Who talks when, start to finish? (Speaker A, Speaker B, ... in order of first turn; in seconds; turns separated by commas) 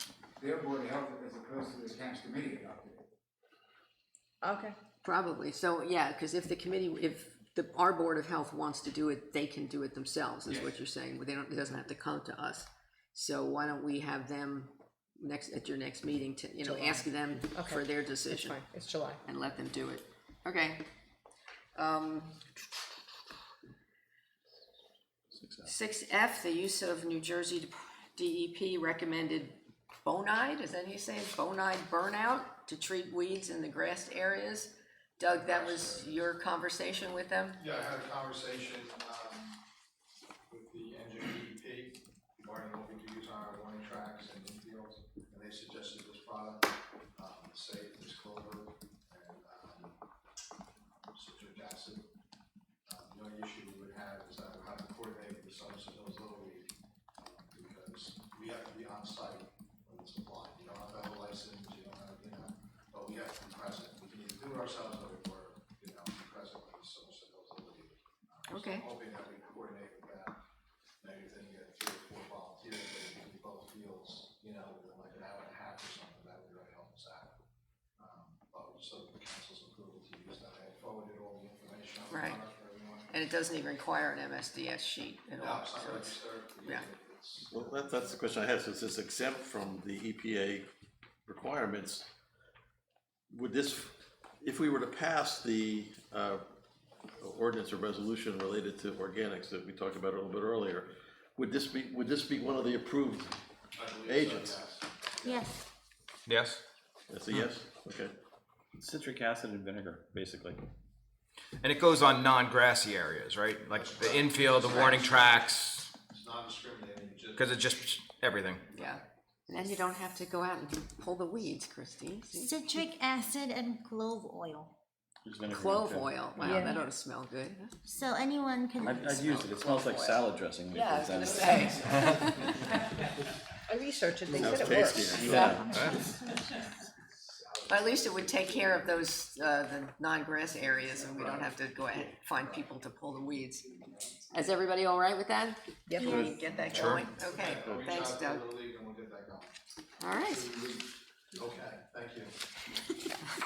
Speaker A: 0.4-3.1, Speaker B: 4.4-4.8, Speaker C: 5.0-18.6, Speaker B: 16.6-19.2, Speaker C: 19.2-20.8, Speaker C: 21.7-22.4, Speaker D: 25.4-25.7, Speaker C: 25.6-37.6, Speaker E: 35.2-36.2, Speaker E: 37.6-39.6, Speaker E: 40.5-50.0, Speaker E: 51.1-52.1, Speaker E: 52.9-70.3, Speaker C: 68.5-68.8, Speaker E: 71.0-77.3, Speaker E: 78.0-83.1, Speaker C: 82.1-82.4, Speaker C: 83.1-86.9, Speaker E: 85.4-88.2, Speaker F: 87.5-90.7, Speaker F: 91.2-92.1, Speaker F: 93.3-96.4, Speaker F: 97.2-103.3, Speaker E: 103.8-105.5, Speaker F: 104.1-104.6, Speaker G: 105.2-105.6, Speaker H: 106.3-106.6, Speaker F: 107.1-108.1, Speaker D: 108.8-110.5, Speaker H: 111.6-115.9, Speaker E: 113.7-115.4, Speaker E: 116.0-117.7, Speaker H: 117.3-118.7, Speaker C: 118.7-122.7, Speaker G: 122.3-124.7, Speaker D: 125.2-126.7, Speaker C: 125.5-127.8, Speaker B: 126.4-126.8, Speaker G: 127.8-129.4, Speaker C: 128.8-132.8, Speaker D: 128.8-132.3, Speaker B: 133.7-135.4, Speaker F: 134.3-135.6, Speaker D: 134.7-135.8, Speaker C: 135.2-135.6, Speaker H: 135.7-136.1, Speaker G: 135.8-136.2, Speaker A: 137.5-138.7, Speaker C: 137.7-143.7, Speaker A: 141.0-141.5, Speaker A: 143.6-144.3, Speaker C: 144.3-148.5, Speaker B: 145.9-146.3, Speaker G: 146.0-146.5, Speaker F: 146.1-146.9, Speaker H: 146.7-147.1, Speaker E: 147.1-149.6, Speaker C: 150.0-150.6, Speaker E: 150.2-152.3